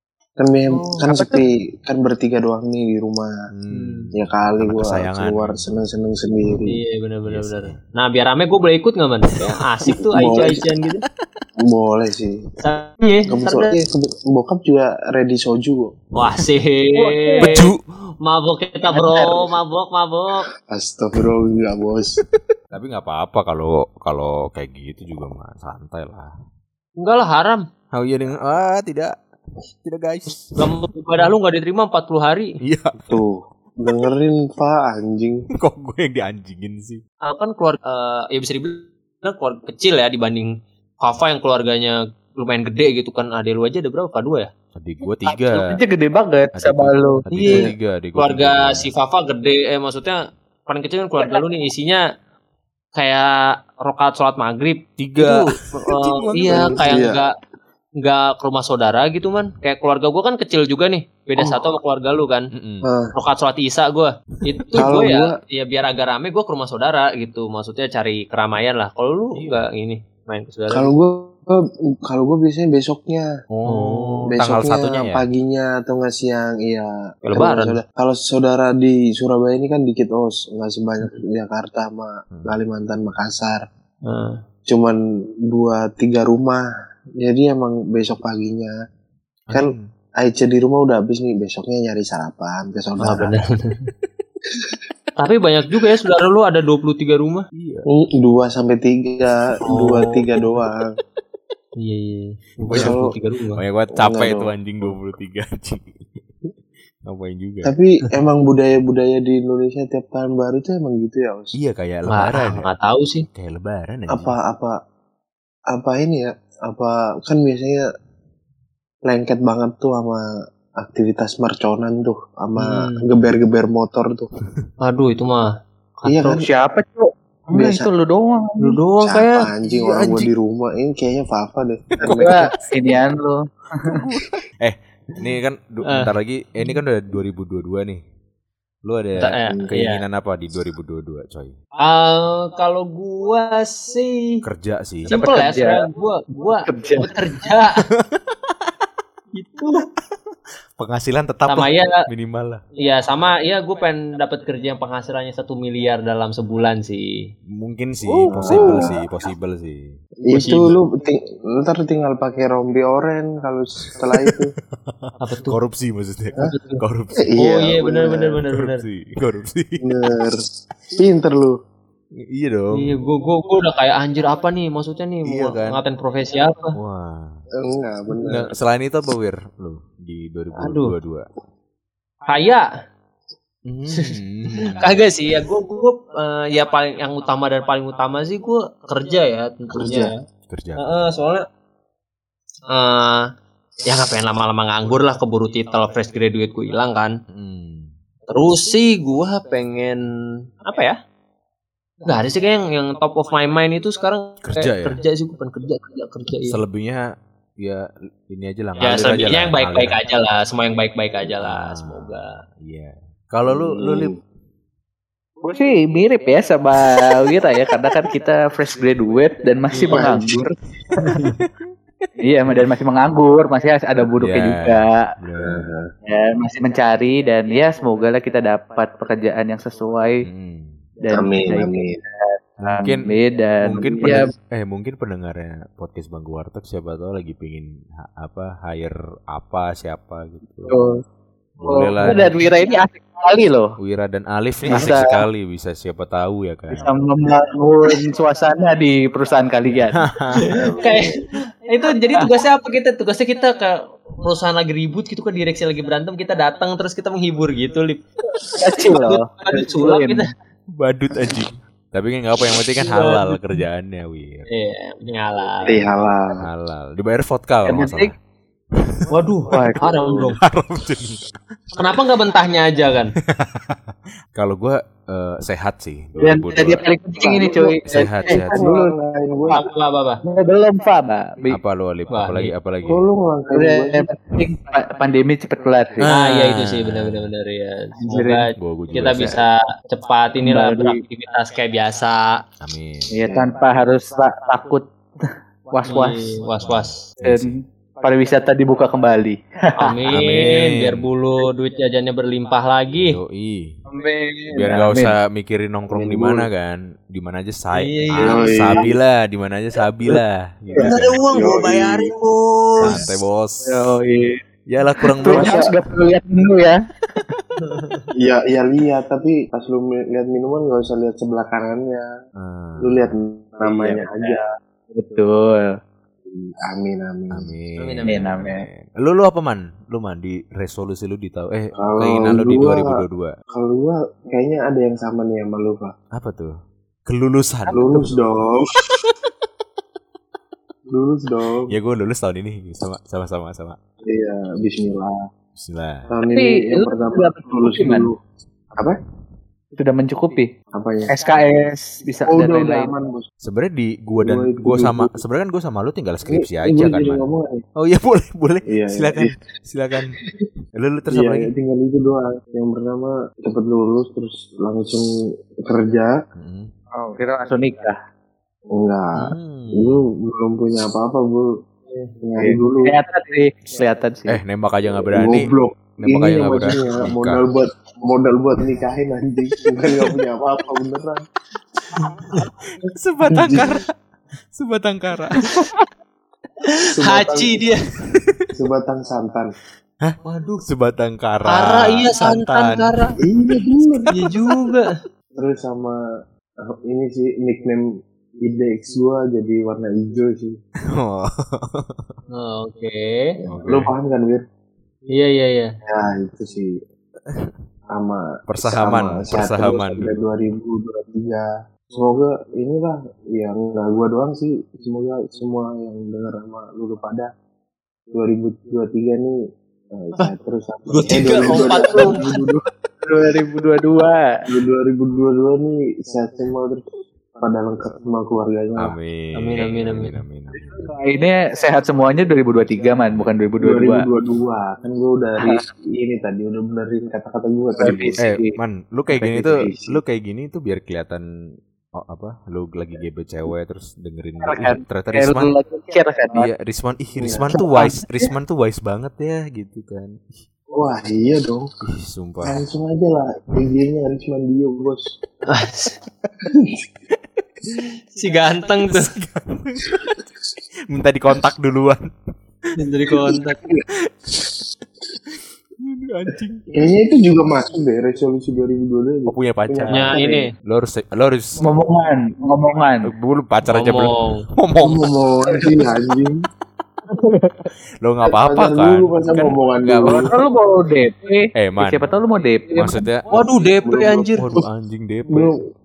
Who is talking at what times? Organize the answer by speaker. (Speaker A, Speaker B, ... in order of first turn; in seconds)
Speaker A: 0.4-3.3, 4.1-6.7, 9.9-10.6, 11.7-12.4, 13.3-15.9, 20.7-22.1, 33.1-35.5, 47.4-47.7, 56.4-57.2, 61.4-61.7, 62.8-63.1, 64.7-65.3, 70.7-73.3, 74.3-83.6, 84.7-85.0, 85.5-86.6, 87.2-88.7, 89.5-93.3, 97.9-100.9, 102.6-103.1, 104.0-104.9, 107.6-111.5, 114.1-114.7, 115.7-117.8, 119.1-120.2, 120.8-124.3, 126.1-126.4, 127.5-127.9, 129.0-132.4, 158.3-158.9, 160.2-164.5, 167.2-168.4, 169.8-170.4, 170.9-171.5, 177.6-178.5, 189.7-190.1, 213.4-214.2, 219.9-220.5, 225.4-225.9, 231.1-232.0, 250.5-251.0, 265.6-266.4, 269.9-270.3, 277.2-279.6, 282.9-284.1, 293.3-293.5, 305.9-306.5, 308.2-308.9, 310.7-312.1, 315.3-315.7, 318.2-322.1, 322.8-324.4, 326.2-327.5, 331.8-332.9, 333.5-335.9, 337.7-338.7, 340.9-341.7, 344.1-345.1, 346.1-348.1, 350.8-351.1, 352.2-353.2, 354.2-355.1, 356.3-357.6, 358.7-359.3, 361.1-365.0, 365.7-366.1, 368.7-371.5, 372.2-372.9, 375.1-381.2, 383.3-383.7, 386.9-387.5, 388.5-389.5, 393.2-394.1, 395.4-396.0, 396.7-397.8, 398.4-400.6, 403.4-404.4, 405.9-406.7, 407.9-417.3, 418.1-419.3, 419.9-422.5, 424.5-426.8, 427.4-428.9, 433.6-438.2, 439.4-440.0, 447.2-447.5, 450.8-451.6, 452.4-455.0, 466.8-470.4, 474.8-476.4, 478.2-480.3, 483.8-484.6
Speaker B: 1.0-1.4, 16.9-17.6, 18.9-19.5, 45.2-47.2, 126.4-128.8, 132.0-134.0, 145.1-145.8, 146.7-147.1, 215.4-221.1, 222.2-225.0, 226.1-230.2, 231.0-234.3, 240.7-241.0, 241.7-243.7, 244.7-245.2, 246.7-250.1, 258.5-260.3, 267.6-268.1, 269.5-269.8, 276.2-278.9, 280.2-281.6, 283.5-286.0, 288.0-288.4, 290.4-291.0, 293.1-294.8, 295.7-296.3, 297.2-299.9, 303.9-305.1, 313.6-314.4, 315.0-316.8, 323.8-324.4, 324.9-325.7, 328.1-328.6, 337.7-338.0, 346.3-348.1, 349.7-350.5, 351.1-352.9, 366.9-367.9, 372.4-374.4, 421.5-424.2, 430.5-434.1, 437.8-438.5, 439.1-439.4, 444.4-446.5, 447.6-448.3, 471.6-473.1, 477.1-477.7, 480.1-483.0
Speaker C: 3.5-5.7, 7.3-7.8, 17.4-17.8, 22.3-26.3, 27.9-29.1, 29.8-31.3, 32.6-33.2, 35.6-37.0, 44.8-45.6, 46.5-48.9, 55.0-57.0, 62.5-62.8, 64.6-64.9, 73.6-75.2, 89.5-89.9, 97.5-97.8, 102.7-103.0, 103.5-106.0, 107.0-107.7, 111.5-112.7, 113.3-114.3, 129.7-130.3, 132.0-132.3, 133.8-138.0, 138.8-141.5, 144.4-145.1, 147.9-148.2, 150.8-152.6, 157.6-160.6, 164.1-167.3, 168.5-170.2, 172.3-172.9, 175.2-175.8, 176.7-177.4, 178.3-181.3, 183.7-185.0, 190.5-190.8, 197.3-197.9, 204.4-205.0, 206.5-207.0, 207.6-210.0, 211.4-214.2, 224.2-225.7, 230.2-230.8, 232.6-240.8, 241.6-242.3, 243.8-247.0, 249.9-250.7, 260.8-264.5, 266.4-268.1, 268.8-269.4, 270.1-271.4, 273.3-273.8, 274.3-276.8, 277.9-278.5, 281.5-283.0, 286.0-287.3, 288.6-289.4, 292.6-293.1, 296.6-297.6, 300.1-301.1, 302.9-303.7, 304.5-311.6, 312.8-313.8, 314.7-315.7, 322.4-323.1, 327.3-333.3, 336.1-336.5, 337.1-338.2, 341.7-343.8, 345.6-346.1, 353.4-357.2, 357.8-360.2, 360.8-361.5, 366.3-366.7, 369.1-370.0, 374.3-377.4, 382.8-383.9, 384.5-385.4, 388.2-388.4, 390.0-393.2, 393.9-394.4, 400.9-402.0, 403.5-403.9, 408.5-410.1, 428.8-430.9, 438.2-441.2, 442.0-445.5, 446.4-450.1, 451.8-452.6, 458.9-460.2, 460.9-462.1, 464.3-464.6, 465.8-466.7, 469.3-471.6, 473.1-475.1, 478.0-480.3, 481.5-482.1, 482.7-483.4, 484.4-485.6
Speaker D: 3.7-4.1, 6.7-11.0, 12.6-13.8, 16.1-17.7, 18.2-20.5, 27.0-27.6, 30.6-32.5, 37.2-44.5, 47.3-52.0, 53.0-57.3, 58.0-62.5, 63.1-70.9, 73.6-74.3, 77.3-77.8, 84.0-84.4, 93.0-93.8, 95.2-97.4, 99.7-100.5, 101.8-103.6, 112.1-113.2, 122.6-123.1, 124.8-125.4, 126.0-126.4, 128.6-129.5, 139.2-140.0, 141.8-144.3, 145.1-147.8, 149.3-149.9, 151.5-152.0, 152.8-157.1, 158.1-159.0, 160.3-160.8, 165.2-165.6, 166.4-166.8, 167.4-168.8, 172.7-176.7, 180.6-180.9, 182.3-182.6, 184.7-190.1, 190.8-191.4, 192.7-193.2, 193.8-197.1, 198.3-200.0, 200.6-201.0, 202.0-206.6, 208.8-212.4, 219.7-220.0, 250.4-260.3, 262.8-263.4, 264.5-265.9, 269.1-270.4, 271.8-273.1, 279.5-280.2, 282.1-282.5, 286.0-292.2, 295.9-297.0, 299.8-303.2, 307.7-308.8, 310.8-313.0, 317.6-318.1, 327.8-328.3, 386.7-387.9, 390.2-390.6, 391.4-393.1, 394.1-394.9, 402.3-403.1, 405.1-405.7, 420.9-422.4, 429.4-430.1, 455.5-455.9, 458.2-459.1, 462.8-463.6, 469.9-470.5, 473.7-474.4, 483.3-484.4